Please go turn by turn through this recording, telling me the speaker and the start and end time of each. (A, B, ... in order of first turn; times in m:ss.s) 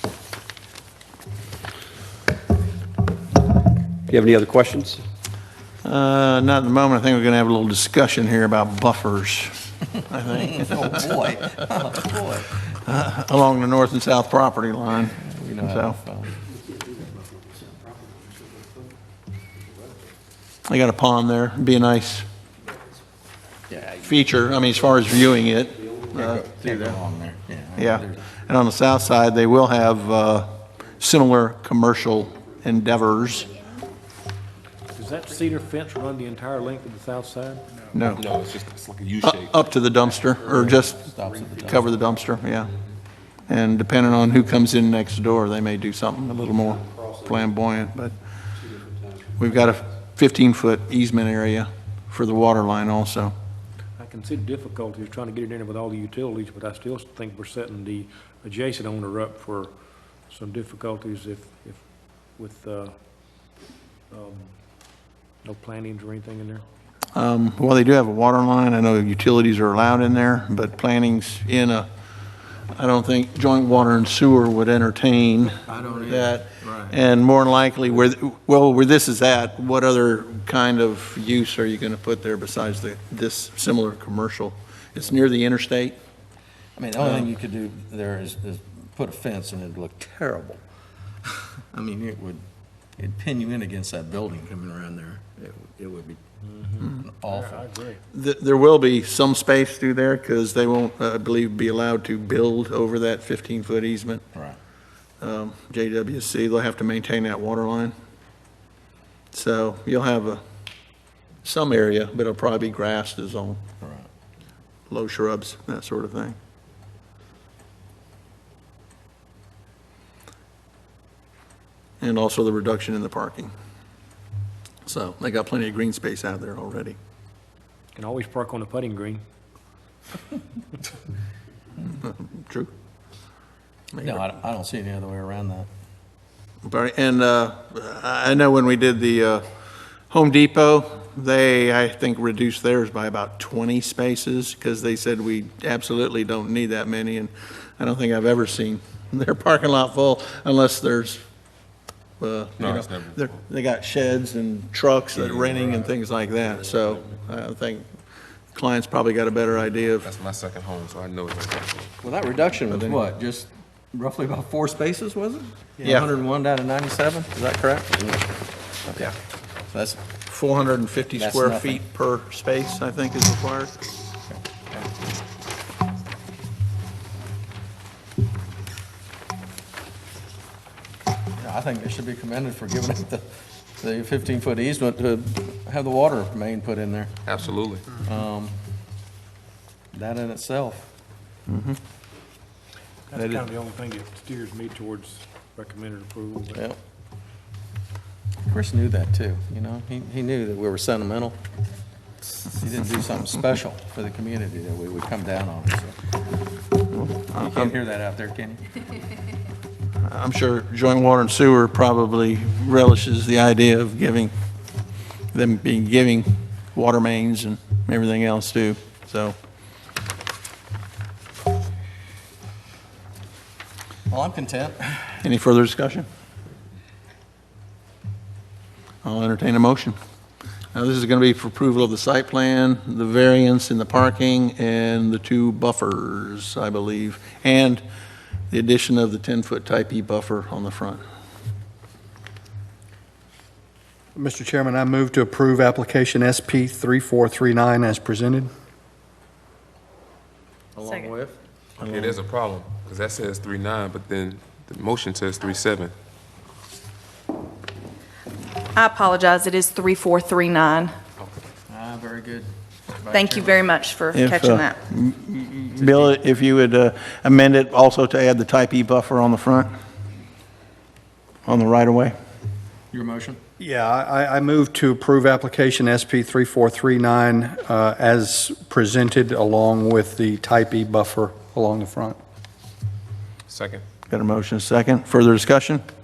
0:04.1-0:05.0 A
0:05.8-0:11.1 B
0:10.3-0:12.6 C
0:12.8-0:16.0 B
0:15.1-0:16.4 C
0:20.6-0:22.2 B
0:23.7-0:24.1 C
0:24.0-0:27.0 B
0:26.1-0:28.4 C
0:27.8-0:33.5 B
0:34.9-0:37.7 D
0:37.9-0:38.3 B
0:38.1-0:39.6 E
0:39.2-0:41.0 B
0:40.4-0:41.8 C
0:41.6-0:42.7 B
0:43.5-0:48.1 B
0:46.9-0:47.4 A
0:48.6-0:49.1 A
0:49.4-0:53.3 B
0:54.0-1:06.6 D
1:07.1-1:11.9 B
1:12.7-1:26.0 B
1:15.7-1:17.0 C
1:26.8-1:30.6 C
1:31.7-1:32.4 C
1:33.0-1:36.2 C
1:36.5-1:38.0 D
1:37.0-1:37.6 C
1:38.1-1:44.2 B
1:45.2-1:47.9 B
1:49.3-1:50.4 B
1:51.4-1:53.6 B
1:53.8-1:54.1 C
1:54.9-1:56.4 B
2:02.0-2:03.5 B
2:04.8-2:07.0 B
2:07.9-2:09.2 D
2:12.0-2:12.7 B
2:13.9-2:14.2 B
2:14.0-2:15.7 C
2:16.6-2:19.4 B
2:20.1-2:31.2 B
2:32.2-2:37.8 B
2:32.6-2:33.4 E
2:35.2-2:35.7 E
2:36.4-2:37.1 E
2:38.5-2:40.1 B
2:40.0-2:42.0 E
2:42.0-2:48.3 C
2:42.7-2:43.0 B
2:49.7-2:50.0 C
2:50.3-2:53.7 B
2:51.1-2:51.8 C
2:54.3-2:54.9 C
3:01.4-3:07.2 C
3:07.2-3:07.9 E
3:07.9-3:08.6 C
3:09.9-3:10.9 C
3:11.5-3:11.8 B
3:13.1-3:16.6 D
3:13.1-3:13.4 B
3:16.5-3:16.8 C
3:18.5-3:21.4 C
3:22.5-3:26.0 C
3:26.9-3:27.8 B
3:27.3-3:28.6 C
3:30.0-3:34.3 B
3:35.3-3:39.3 B
3:44.1-3:45.2 C
3:45.2-3:46.1 B
3:49.0-3:50.0 B
3:50.7-3:57.8 B
3:58.5-4:01.0 B
4:04.2-4:08.5 F
4:10.8-4:12.2 C
4:11.8-4:15.9 E
4:18.7-4:20.9 G
4:21.7-4:22.5 C
4:23.0-4:23.7 C
4:23.0-4:24.8 G
4:24.1-4:29.7 B
4:25.8-4:26.2 C
4:31.4-4:32.1 B
4:32.9-4:33.4 C
4:33.6-4:42.2 F
4:43.5-4:43.8 E
4:44.1-4:45.8 B